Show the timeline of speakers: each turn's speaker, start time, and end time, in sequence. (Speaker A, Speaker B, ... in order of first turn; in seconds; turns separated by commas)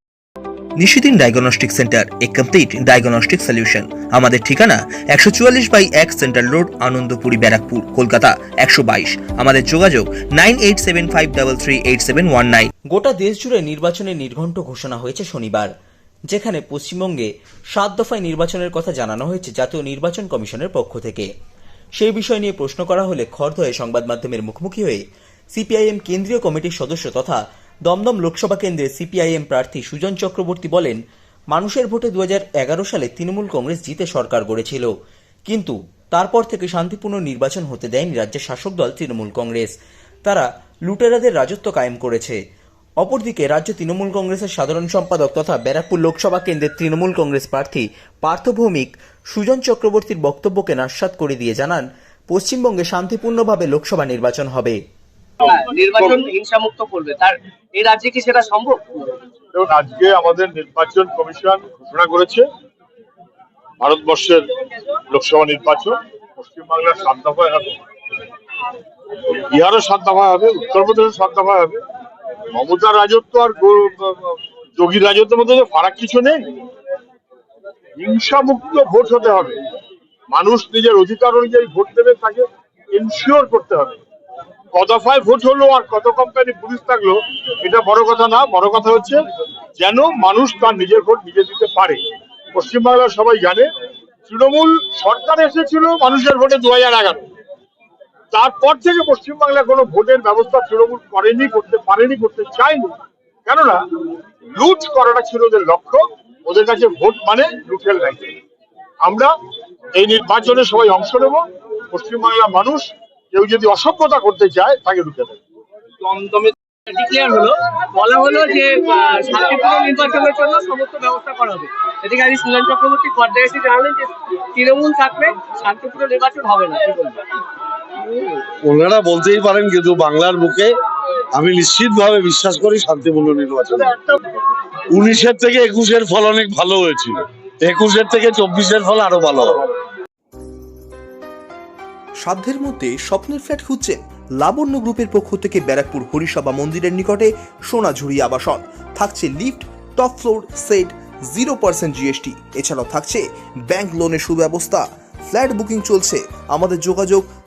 Speaker A: 0.8-15.7, Speaker A: 16.3-21.3, Speaker A: 22.0-31.0, Speaker A: 31.5-34.9, Speaker A: 35.5-39.7, Speaker A: 40.2-42.4, Speaker A: 43.0-54.8, Speaker B: 55.4-59.1, Speaker C: 59.5-62.5, Speaker C: 63.8-64.5, Speaker C: 65.1-67.8, Speaker C: 69.2-71.8, Speaker C: 72.5-76.6, Speaker C: 78.0-79.5, Speaker C: 80.3-84.0, Speaker C: 84.7-89.2, Speaker C: 89.8-92.0, Speaker C: 92.5-93.7, Speaker C: 94.3-97.2, Speaker C: 98.3-102.9, Speaker C: 103.5-103.8, Speaker C: 104.5-108.3, Speaker C: 109.0-109.3, Speaker C: 109.9-115.4, Speaker B: 116.0-127.2, Speaker D: 128.2-130.7, Speaker D: 131.3-134.2, Speaker D: 134.9-139.7, Speaker E: 142.5-143.9, Speaker A: 144.4-147.1, Speaker A: 147.8-148.6, Speaker E: 149.0-149.4, Speaker E: 150.1-150.8, Speaker E: 151.3-154.8, Speaker E: 155.3-157.1